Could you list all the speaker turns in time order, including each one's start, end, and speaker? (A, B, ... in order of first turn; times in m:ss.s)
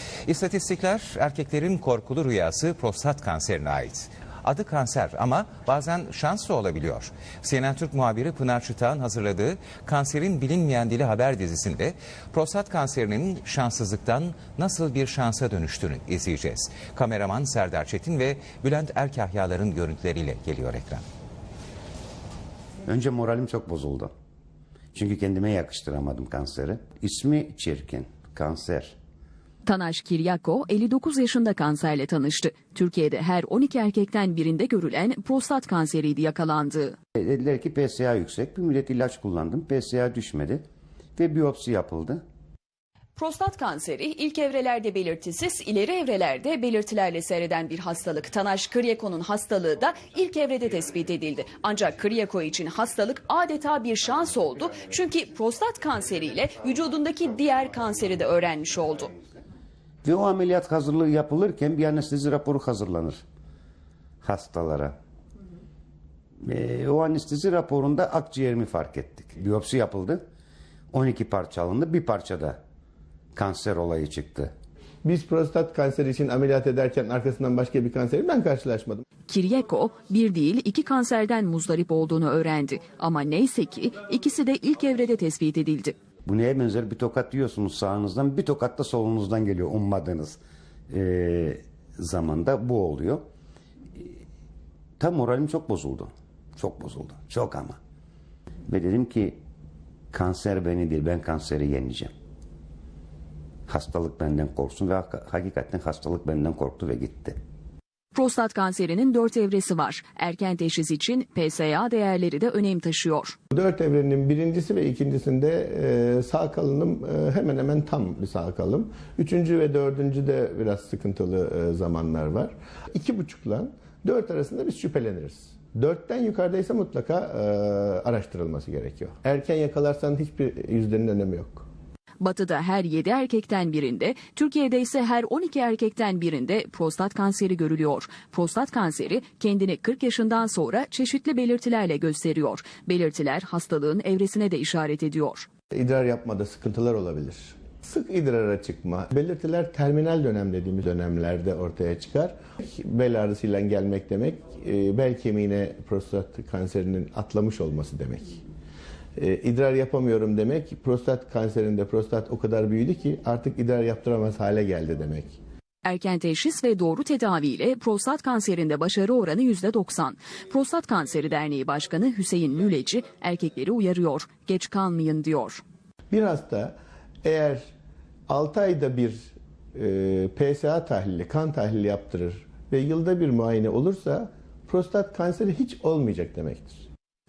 0:00.2-0:21.0 A
0:22.8-0:24.1 B
0:24.9-0:29.0 B
0:29.6-0:37.0 C
0:37.2-0:40.6 B
0:41.2-0:42.2 B
0:43.2-0:59.1 C
1:00.0-1:03.2 B
1:04.2-1:05.0 B
1:06.4-1:10.2 B
1:10.9-1:12.6 B
1:13.4-1:14.5 B
1:15.0-1:19.0 D
1:19.3-1:26.0 C
1:26.3-1:30.4 B
1:30.9-1:33.2 B
1:35.0-1:37.8 B
1:38.7-1:39.4 B
1:40.1-1:42.1 B
1:43.7-1:47.4 B
1:48.1-1:53.4 C
1:53.5-2:11.7 D
2:12.2-2:25.5 C
2:25.7-2:38.4 D
2:39.2-2:45.4 D
2:45.8-2:55.6 C
2:56.1-2:57.7 D
2:58.3-3:06.8 D